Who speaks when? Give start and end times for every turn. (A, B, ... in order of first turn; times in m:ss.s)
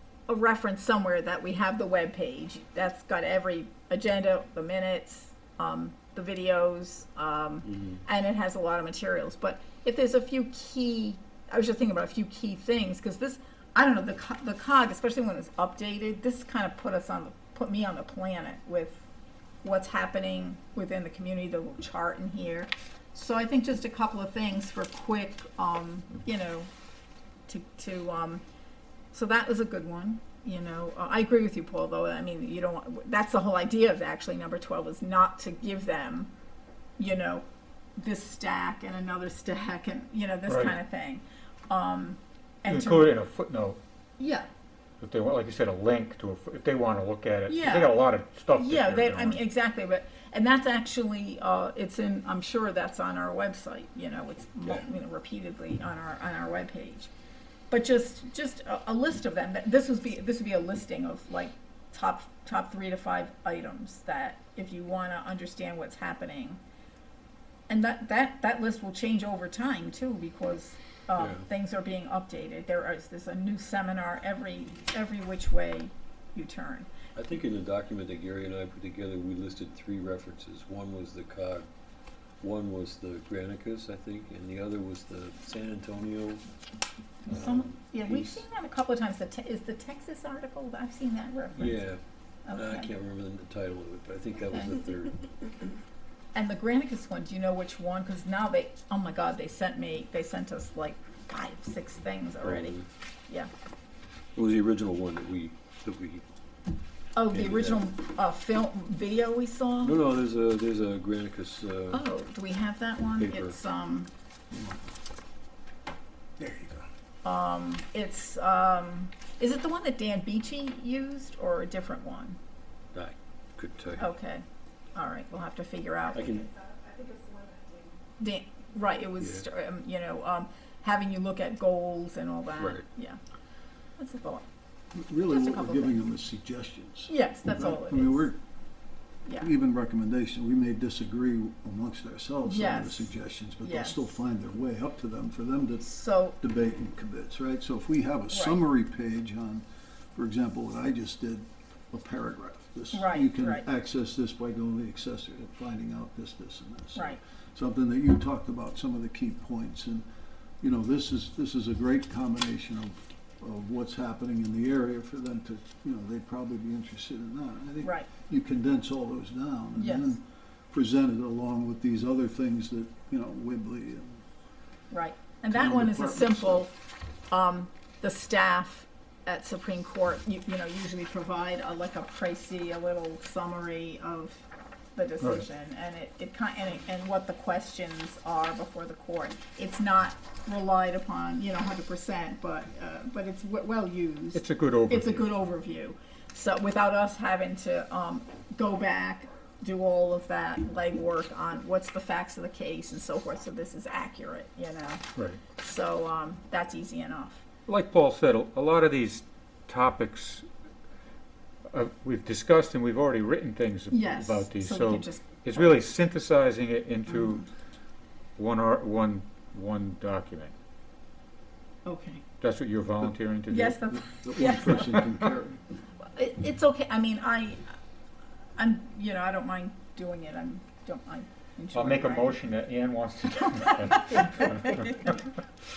0:00.3-0:19.0 A
0:07.7-0:08.0 B
0:19.6-0:26.7 A
0:27.5-0:28.4 A
0:29.1-0:36.3 A
0:37.0-0:37.4 A
0:38.0-0:43.2 A
0:40.5-0:40.7 C
0:42.6-0:43.8 C
0:44.2-0:44.5 A
0:45.0-0:49.4 C
0:47.5-0:48.0 A
0:48.5-0:57.1 A
0:57.7-1:06.6 A
1:07.7-1:16.9 A
1:11.2-1:11.4 B
1:17.1-1:21.7 B
1:22.4-1:26.4 B
1:27.2-1:31.8 A
1:27.3-1:28.4 B
1:31.5-1:35.5 B
1:32.5-1:32.9 A
1:36.3-1:42.8 A
1:42.4-1:42.8 B
1:44.4-1:46.2 B
1:47.2-1:50.0 A
1:47.3-1:47.8 B
1:49.8-1:52.0 B
1:51.9-1:54.1 A
1:53.2-1:53.6 B
1:56.4-1:56.8 D
1:57.2-2:02.4 A
2:02.9-2:04.1 B
2:04.0-2:06.5 A
2:06.1-2:06.5 B
2:06.8-2:07.8 C
2:08.2-2:13.2 A
2:12.6-2:12.8 B
2:14.0-2:14.4 A
2:14.9-2:18.4 D
2:15.3-2:16.0 A
2:17.1-2:18.3 A
2:19.4-2:29.6 D
2:22.4-2:24.2 A
2:25.8-2:26.4 A
2:28.3-2:28.6 A
2:30.1-2:40.0 D
2:32.9-2:33.6 A
2:40.6-2:54.2 D
2:47.8-2:48.1 A
2:49.8-2:50.2 A
2:54.9-2:56.7 A
2:55.5-2:56.6 D
2:57.3-3:27.4 A
3:14.3-3:15.3 C
3:27.7-3:30.4 C
3:31.7-3:37.4 C
3:33.9-3:35.6 A
3:38.4-3:40.5 C
3:41.8-3:42.2 A
3:42.4-3:43.8 C
3:43.5-3:45.0 A
3:44.0-3:45.6 D
3:46.1-3:47.7 A
3:48.6-3:52.4 A
3:51.7-3:54.7 C
3:53.4-3:55.2 A